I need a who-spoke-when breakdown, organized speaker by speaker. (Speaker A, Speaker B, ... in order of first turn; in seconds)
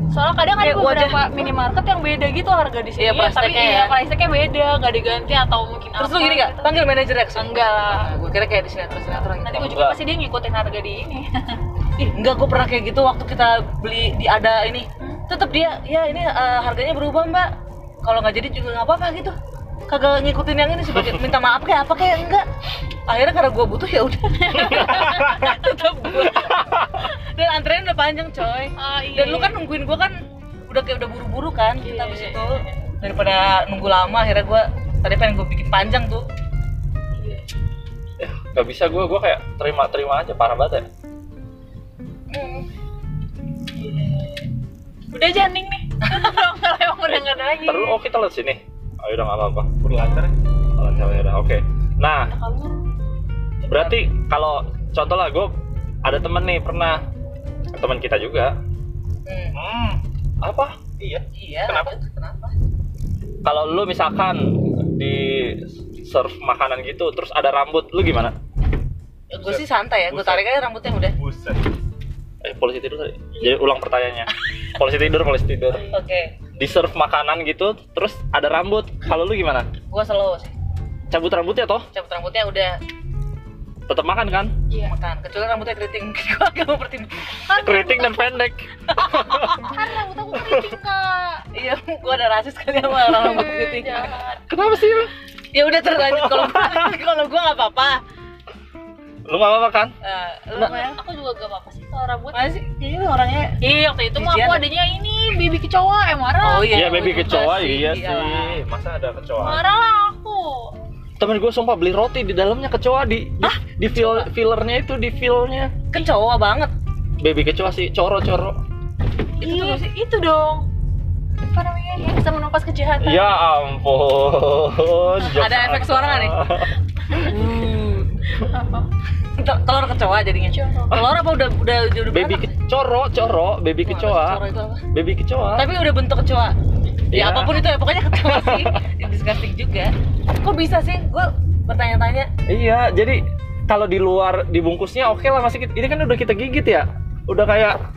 Speaker A: 0.1-8.1, 9.2-12.1, 24.4-25.6, 28.8-29.6, 31.8-32.7, 37.2-37.5, 43.7-44.5, 45.1-48.0, 52.3-52.9, 75.7-76.0, 87.5-88.3, 89.5-91.4, 92.9-94.4, 100.6-102.5, 103.6-107.1, 109.4-110.7, 119.4-120.7, 121.4-123.3, 127.0-128.9, 130.5-131.0
Speaker B: 0.6-1.3, 3.0-4.0, 6.0-9.8, 12.1-17.5, 18.0-19.3, 19.9-22.5, 23.1-30.1, 30.7-36.3, 42.3-42.7, 59.3-59.5, 61.3-62.5, 69.3-71.2, 75.9-76.3, 79.9-80.5, 81.9-82.8, 84.8-87.6, 88.9-89.7, 91.5-94.1, 95.5-98.0, 100.0-101.0, 102.3-103.6, 104.2-104.7, 106.4-108.6, 113.4-114.3, 115.9-116.7, 119.4-119.8, 125.4-126.5, 129.4-132.5, 133.8-134.8, 135.6-136.5, 137.1-142.3
Speaker C: 9.5-10.0, 24.8-25.1, 26.2-27.1, 38.2-40.9, 47.6-49.7, 50.8-52.4, 53.7-57.0, 57.7-58.6, 60.4-60.8, 63.4-68.3, 72.4-75.8, 76.6-79.7, 81.1-81.9, 83.9-84.5, 87.6-89.5, 94.5-95.1, 96.2-96.9, 99.3-100.0, 106.7-109.6, 111.2-115.7, 117.2-118.6, 123.0-126.7, 132.1-135.7, 137.1-138.8, 142.5-147.8
Speaker D: 49.8-50.3, 59.6-60.0, 61.0-61.9, 70.1-70.4, 71.2-71.6